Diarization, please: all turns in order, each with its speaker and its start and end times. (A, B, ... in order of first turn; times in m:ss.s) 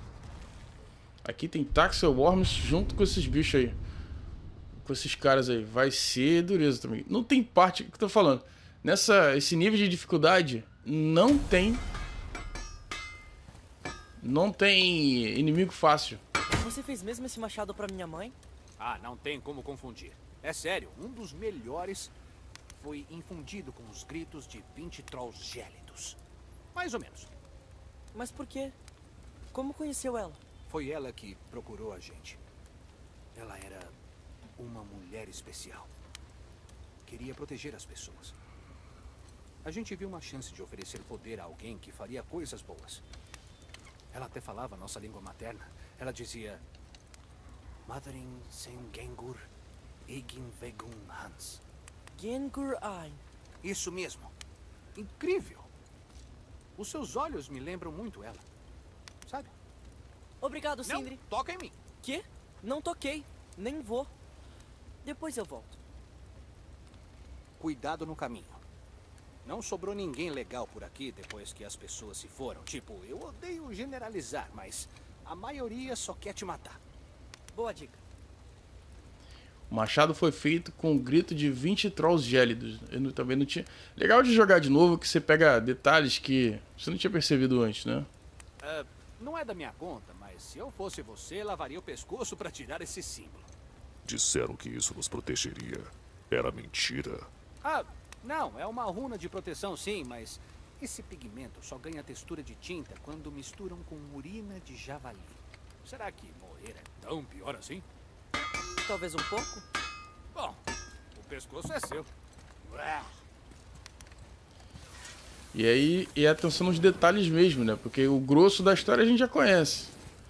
0:01.2-0:03.8 A
0:04.8-0:11.8 A
0:14.2-0:16.2 A
0:16.5-0:18.4 B
0:18.8-0:22.1 C
0:22.8-0:26.2 C
0:26.7-0:27.3 C
0:28.1-0:28.7 B
0:29.5-0:30.4 B
0:30.7-0:32.4 C
0:33.3-0:33.9 C
0:34.6-0:35.9 C
0:37.0-0:38.3 C
0:39.6-0:43.0 C
0:44.1-0:46.6 C
0:47.9-0:49.4 C
0:50.1-0:51.6 C
0:52.1-0:53.2 B
0:53.6-0:54.3 C
0:54.9-0:55.7 C
0:56.8-0:58.4 C
0:59.2-0:59.5 C
1:00.4-1:01.2 B
1:00.8-1:01.7 C
1:02.0-1:04.1 B
1:05.0-1:05.8 B
1:07.6-1:08.6 C
1:09.4-1:16.8 C
1:17.5-1:18.0 B
1:19.7-1:28.1 A
1:28.6-1:33.5 C
1:34.0-1:37.3 D
1:37.6-1:47.8 C
1:48.8-1:49.6 B
1:50.3-1:50.6 C
1:51.1-1:52.1 C
1:52.6-1:53.1 C
1:55.5-1:59.9 A